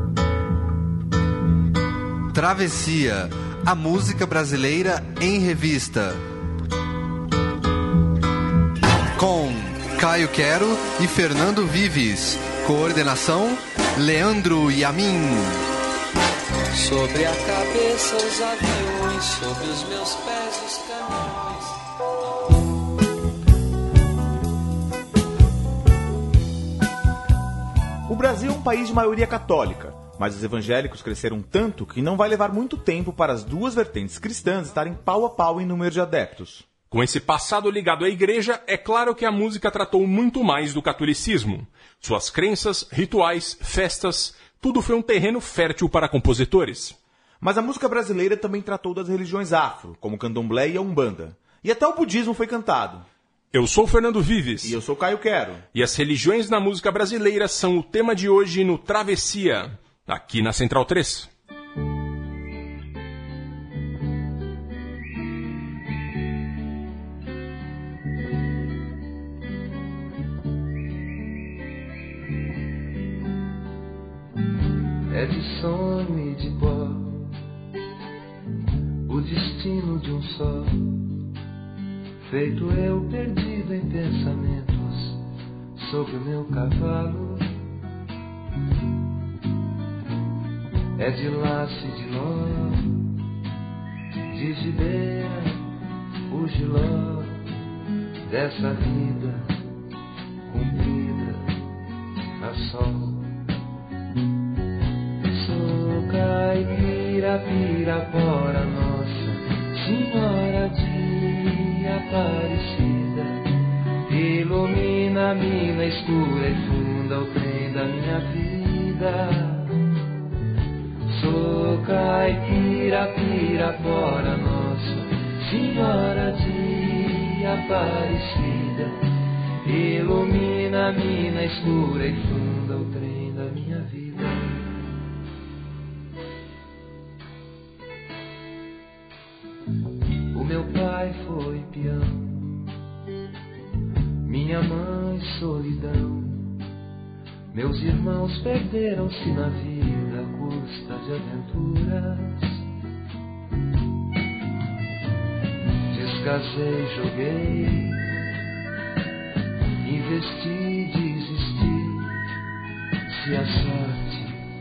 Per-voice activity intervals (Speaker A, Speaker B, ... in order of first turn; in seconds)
Speaker A: 2.3-6.2, 9.2-15.6
Speaker B: 16.7-21.7
Speaker C: 28.1-36.6, 47.4-53.0, 54.6-55.6
Speaker D: 36.9-47.0, 53.5-54.8, 55.7-61.3
Speaker E: 75.1-77.4, 79.0-81.1, 82.3-85.2, 85.8-87.6, 91.0-93.1, 94.3-95.7, 96.3-97.4, 98.2-99.5, 100.5-101.5, 102.4-103.3, 105.2-113.5, 114.0-119.9, 121.1-129.0, 129.6-134.8, 140.3-142.7, 144.2-146.6, 147.5-152.6, 155.9-158.2, 159.8-162.2, 163.1-164.4